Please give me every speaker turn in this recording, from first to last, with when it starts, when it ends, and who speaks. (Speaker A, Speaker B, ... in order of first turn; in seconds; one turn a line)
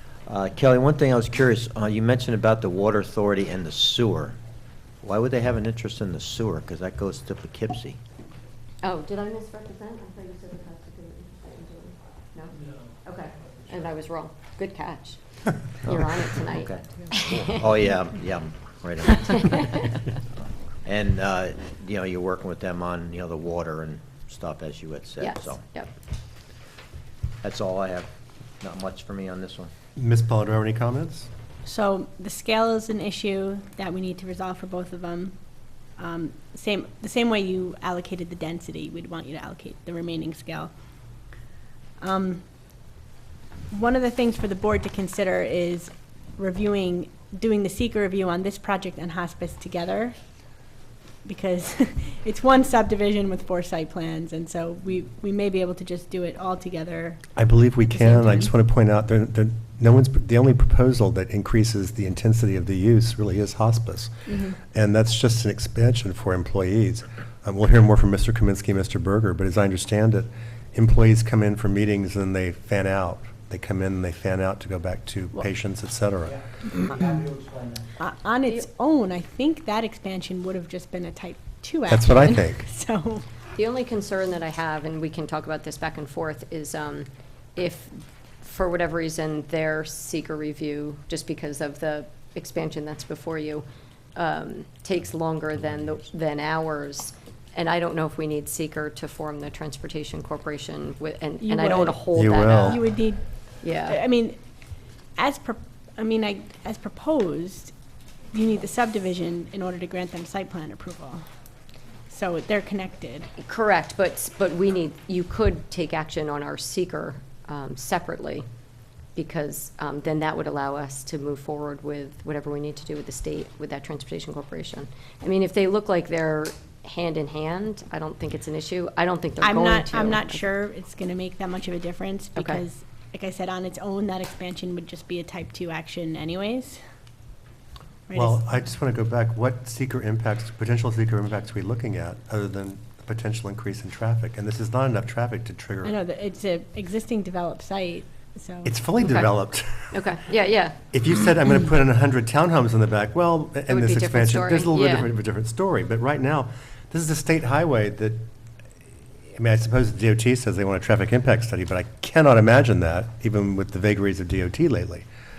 Speaker A: 0.3-4.4
Speaker A: 5.0-8.0
Speaker B: 8.8-17.6
Speaker A: 15.9-19.8
Speaker B: 19.2-19.9
Speaker A: 20.9-25.6
Speaker B: 25.2-25.9
Speaker A: 27.4-28.1
Speaker A: 28.6-29.7
Speaker C: 30.0-31.3
Speaker D: 31.6-35.4
Speaker D: 36.0-40.7
Speaker D: 42.0-42.4
Speaker D: 43.7-50.2
Speaker D: 51.2-57.2
Speaker C: 57.4-76.4
Speaker D: 57.8-58.5
Speaker D: 64.3-64.6
Speaker D: 78.0-83.2
Speaker C: 81.9-82.7
Speaker B: 83.6-102.9
Speaker D: 101.4-102.0
Speaker C: 102.1-102.8
Speaker D: 102.7-103.2
Speaker B: 103.6-104.0
Speaker D: 103.9-104.4
Speaker D: 105.2-107.7
Speaker D: 108.3-111.2
Speaker D: 112.1-113.3
Speaker B: 113.4-118.5
Speaker B: 119.2-130.4
Speaker D: 129.4-136.8
Speaker B: 132.4-132.6
Speaker D: 138.1-138.4
Speaker C: 138.1-145.9
Speaker D: 145.8-148.7
Speaker C: 148.6-149.9
Speaker B: 149.0-149.3
Speaker B: 149.9-150.8
Speaker C: 150.9-158.2
Speaker B: 153.7-155.1
Speaker C: 159.3-165.1